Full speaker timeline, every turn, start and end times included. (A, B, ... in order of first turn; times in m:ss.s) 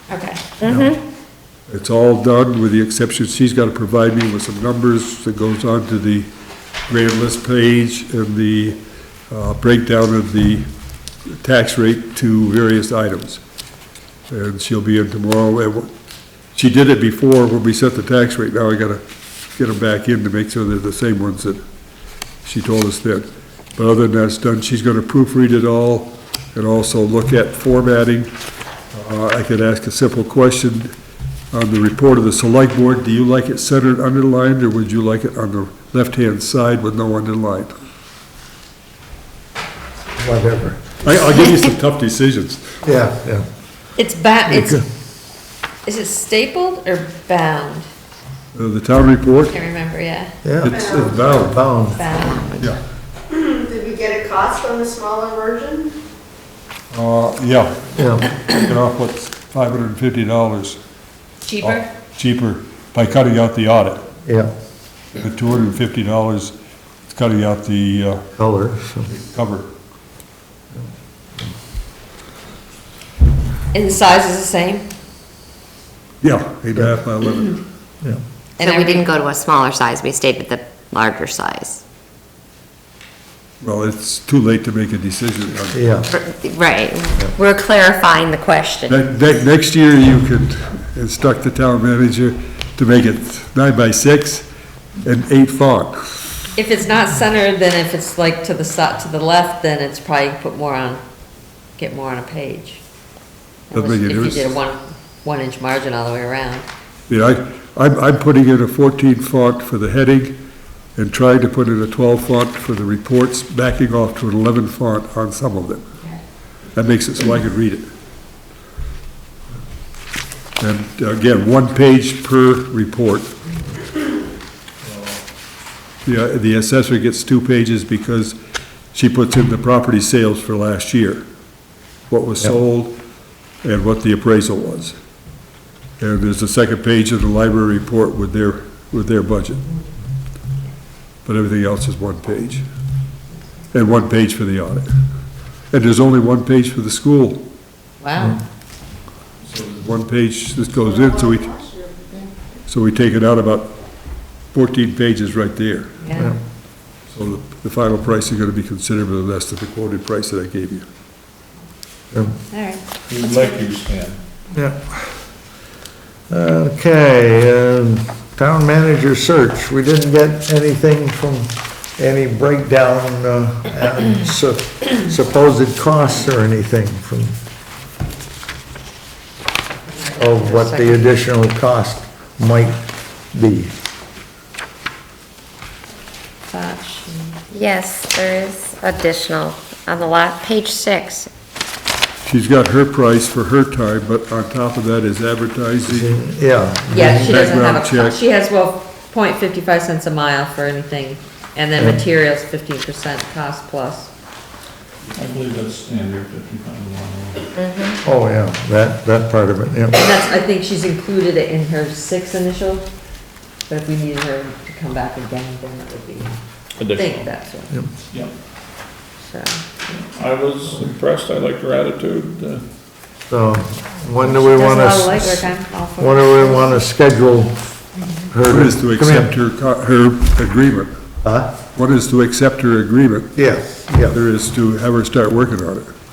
0:00.1-0:00.4 A
0:00.6-0:01.0 B
0:00.6-0:01.0 C
0:01.7-0:06.3 C
0:06.9-0:08.8 C
0:09.3-0:10.6 C
0:11.3-0:13.4 C
0:14.3-0:15.9 C
0:16.5-0:19.0 C
0:19.6-0:21.6 C
0:22.4-0:28.3 C
0:28.9-0:30.9 C
0:31.5-0:37.8 C
0:40.2-0:40.8 D
0:41.0-0:42.7 C
0:42.8-0:43.4 D
0:44.0-0:44.8 A
0:45.8-0:47.9 A
0:48.5-0:49.6 C
0:49.5-0:50.3 A
0:50.4-0:52.0 D
0:50.6-0:51.6 C
0:51.9-0:52.6 A
0:53.4-0:55.9 E
0:56.9-1:00.8 C
0:57.9-0:58.3 D
1:01.4-1:01.8 A
1:01.6-1:04.1 C
1:04.2-1:04.5 D
1:05.1-1:06.5 C
1:07.1-1:08.3 C
1:08.4-1:09.1 D
1:09.0-1:09.7 C
1:13.7-1:14.8 A
1:16.2-1:17.6 C
1:18.6-1:21.8 B
1:18.6-1:19.1 A
1:23.6-1:25.8 C
1:25.7-1:26.1 D
1:26.1-1:29.0 B
1:28.9-1:34.5 C
1:35.0-1:36.4 C
1:36.6-1:41.0 A
1:41.8-1:42.8 A
1:43.7-1:46.6 A
1:43.7-1:44.6 C
1:47.1-1:50.4 C
1:51.0-1:55.9 C
1:56.7-1:57.9 C
2:00.6-2:03.3 C
2:06.0-2:08.4 C
2:08.9-2:11.2 C
2:12.1-2:13.0 C
2:13.6-2:15.0 C
2:16.0-2:19.6 C
2:21.2-2:22.6 C
2:23.7-2:24.9 C
2:25.7-2:27.4 C
2:28.0-2:28.4 A
2:29.4-2:31.6 C
2:32.7-2:33.7 C
2:34.5-2:36.0 C
2:36.0-2:36.3 A
2:36.1-2:36.4 D
2:37.1-2:40.8 C
2:42.5-2:42.8 A
2:43.1-2:44.2 F
2:44.5-2:44.9 D
2:46.3-2:57.3 D
2:59.9-3:01.1 A
3:00.1-3:02.8 D
3:03.3-3:03.7 D
3:06.5-3:07.4 A
3:07.5-3:11.3 B
3:12.2-3:16.1 C
3:15.8-3:17.5 D
3:16.9-3:24.1 A
3:16.9-3:18.2 C
3:25.1-3:27.5 F
3:27.5-3:28.0 B
3:28.0-3:30.0 D
3:29.9-3:32.8 A
3:33.7-3:36.4 A
3:36.8-3:37.3 F
3:36.9-3:37.8 A
3:39.2-3:39.6 A
3:39.9-3:42.6 F
3:43.3-3:47.6 D
3:44.2-3:46.8 A
3:48.2-3:49.3 D
3:48.5-3:50.9 C
3:51.2-3:51.6 D
3:51.7-3:53.5 C
3:53.3-3:54.2 D
3:54.0-3:55.9 C